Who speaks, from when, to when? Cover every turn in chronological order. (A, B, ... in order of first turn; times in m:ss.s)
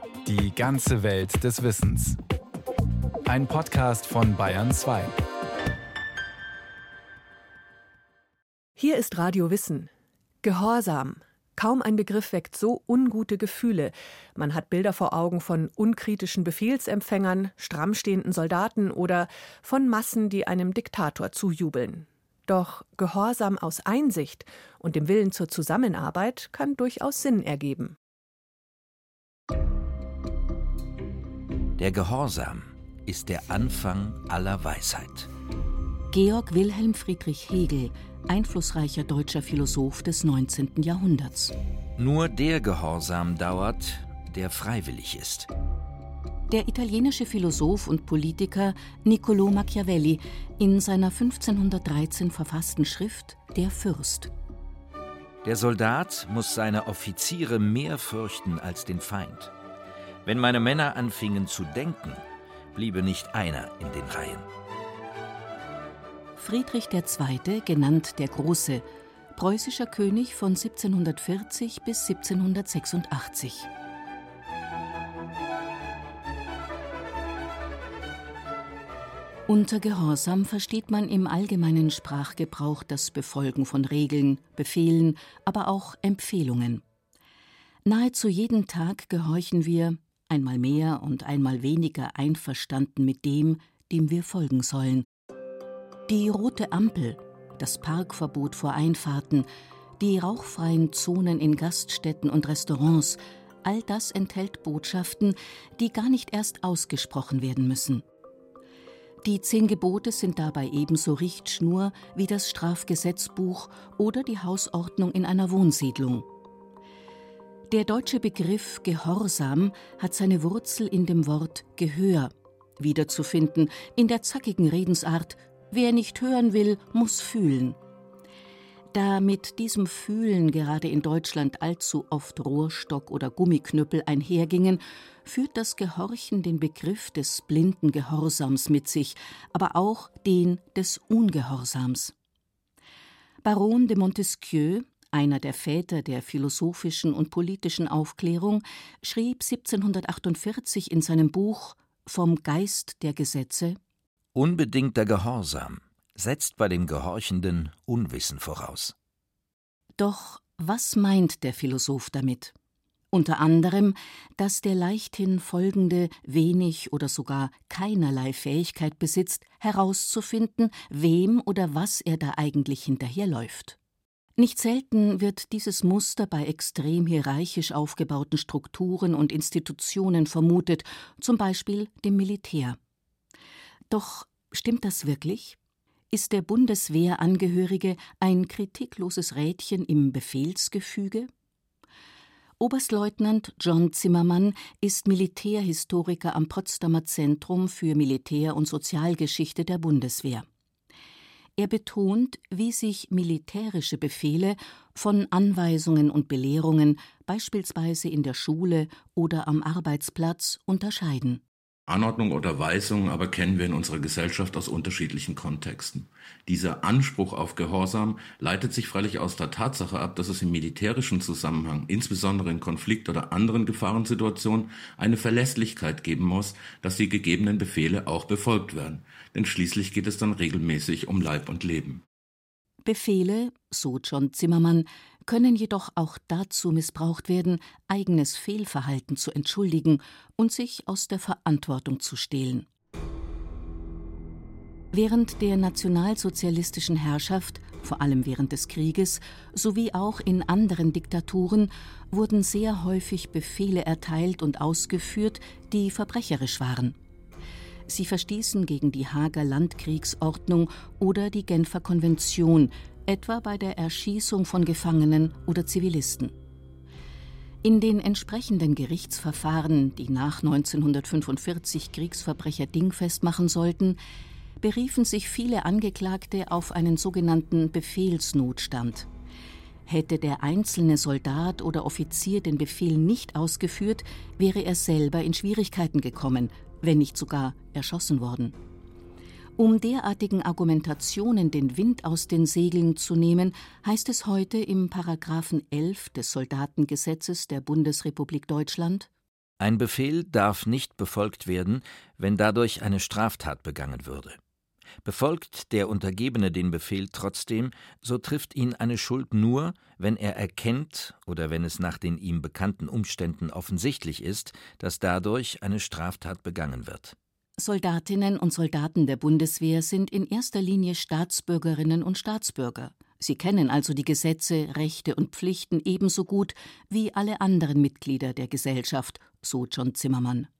0:00.2-0:02.2 A
0:03.3-0:05.2 A
0:08.8-0:09.9 B
0:10.4-0:28.0 B
0:31.8-0:35.3 C
0:36.1-0:41.5 D
0:42.0-0:45.5 C
0:46.5-0:54.3 D
0:55.4-0:59.5 C
1:00.2-1:02.2 C
1:02.7-1:04.5 C
1:06.4-1:13.7 D
1:19.5-1:26.8 D
1:27.9-1:35.1 D
1:36.1-1:39.5 D
1:40.0-1:48.0 D
1:49.2-1:56.3 D
1:57.7-2:07.8 D
2:08.9-2:22.1 D
2:23.4-2:33.8 D
2:34.3-2:38.9 C
2:40.0-2:42.5 D
2:43.1-2:53.8 D
2:54.4-3:02.8 D
3:03.9-3:05.6 D
3:06.1-3:11.3 D
3:12.6-3:20.5 D
3:21.6-3:31.4 D
3:31.9-3:52.0 E
3:52.8-4:02.7 D
4:04.9-4:17.0 D
4:17.9-4:26.3 D
4:27.6-4:34.0 D
4:34.6-4:39.1 D
4:39.9-4:48.6 D
4:49.6-4:59.1 D
4:59.6-5:04.4 C
5:05.0-5:17.1 C
5:17.6-5:30.5 D